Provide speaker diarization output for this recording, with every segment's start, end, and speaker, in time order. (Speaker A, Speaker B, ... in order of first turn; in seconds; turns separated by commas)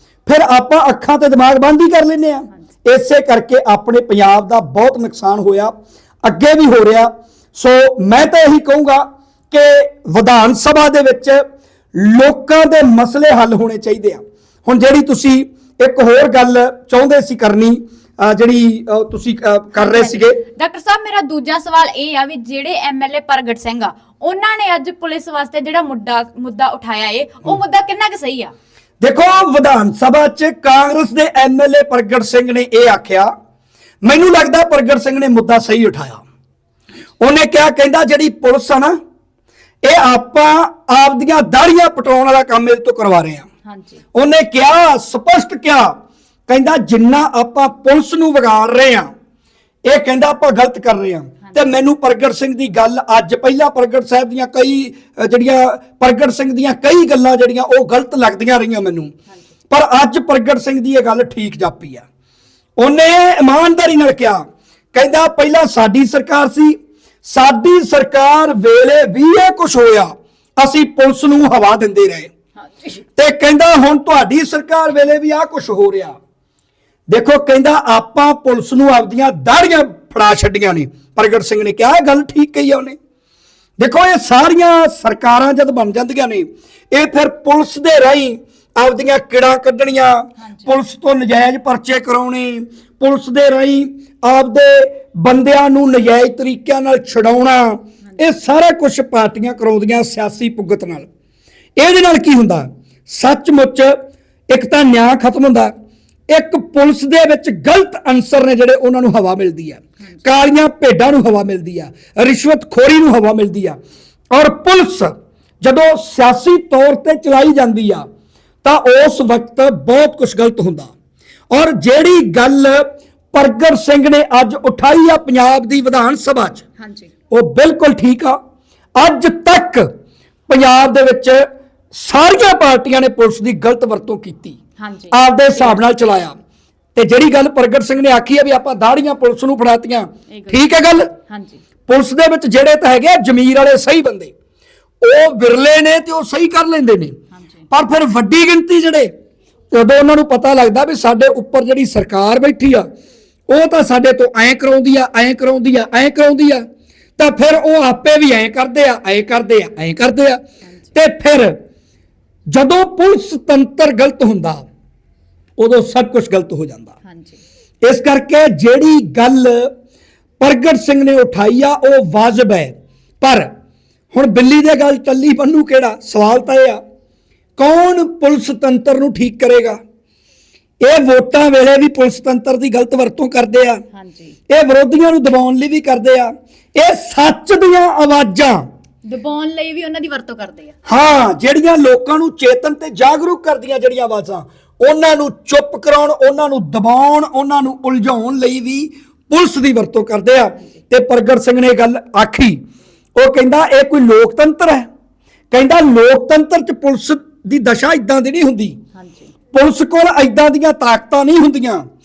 Speaker A: 0.2-11.4, Speaker A: 11.9-20.4, Speaker B: 19.8-28.5, Speaker A: 29.0-33.3, Speaker A: 34.0-36.2, Speaker A: 37.2-39.0, Speaker A: 39.8-43.5, Speaker B: 43.6-44.0, Speaker A: 44.1-45.9, Speaker A: 46.5-49.1, Speaker A: 49.9-59.1, Speaker B: 51.4-51.8, Speaker A: 59.7-62.0, Speaker A: 62.8-72.3, Speaker A: 73.2-76.2, Speaker A: 77.1-83.0, Speaker A: 83.8-101.1, Speaker B: 90.4-90.7, Speaker A: 101.8-104.0, Speaker A: 104.5-105.7, Speaker A: 106.3-113.8, Speaker A: 114.3-118.0, Speaker A: 118.6-120.9, Speaker A: 121.5-126.6, Speaker B: 126.8-127.1, Speaker A: 127.3-128.4, Speaker A: 128.9-129.9, Speaker A: 130.5-134.6, Speaker B: 134.8-135.8, Speaker A: 135.1-136.3, Speaker A: 136.9-141.1, Speaker B: 140.3-141.6, Speaker A: 141.9-144.3, Speaker A: 145.0-147.1, Speaker B: 147.3-147.6, Speaker A: 147.7-149.1, Speaker A: 149.7-152.9, Speaker A: 153.5-156.6, Speaker A: 157.2-160.4, Speaker A: 160.9-161.5, Speaker A: 162.5-164.7, Speaker A: 165.6-166.9, Speaker B: 167.0-167.4, Speaker A: 167.8-169.7, Speaker A: 170.4-173.5, Speaker A: 174.1-176.8, Speaker A: 177.6-179.8, Speaker A: 180.8-183.8, Speaker B: 183.9-184.3, Speaker A: 184.5-188.7, Speaker B: 189.0-190.7, Speaker A: 190.9-202.6, Speaker A: 203.1-204.9, Speaker A: 205.5-208.8, Speaker B: 208.9-209.3, Speaker A: 209.5-211.8